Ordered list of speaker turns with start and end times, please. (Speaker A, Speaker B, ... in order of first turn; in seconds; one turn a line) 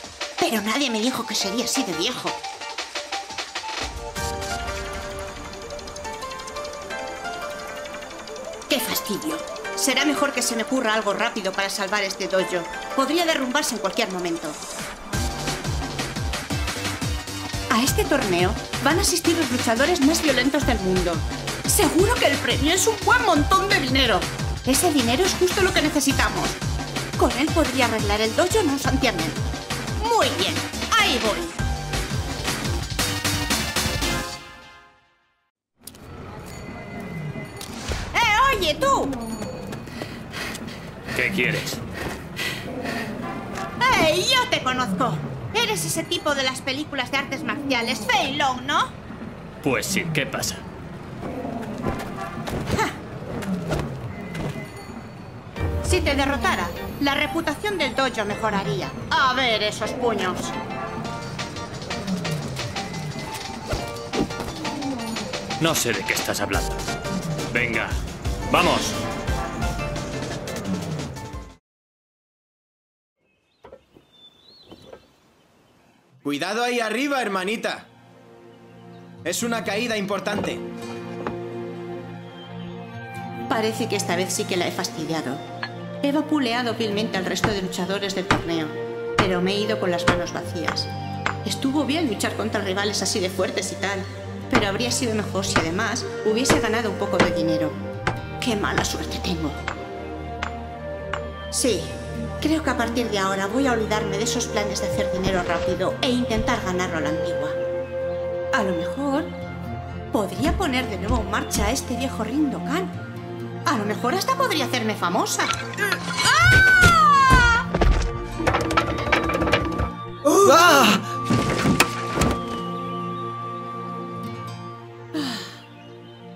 Speaker A: 0.4-2.4
Speaker A: 8.7-14.6
Speaker A: 17.7-26.6
Speaker A: 27.1-31.6
Speaker A: 38.1-39.1
Speaker B: 41.1-41.8
Speaker A: 43.8-48.9
Speaker B: 49.6-50.6
Speaker A: 55.8-60.5
Speaker B: 65.6-66.8
Speaker B: 67.5-69.0
Speaker C: 76.2-77.9
Speaker C: 79.2-80.6
Speaker A: 83.5-85.4
Speaker A: 86.0-90.9
Speaker A: 91.4-97.8
Speaker A: 98.4-99.6
Speaker A: 101.5-107.6
Speaker A: 108.5-109.3
Speaker A: 110.1-112.9
Speaker A: 113.7-115.5
Speaker A: 116.1-117.6
Speaker A: 120.3-121.0
Speaker A: 125.1-125.5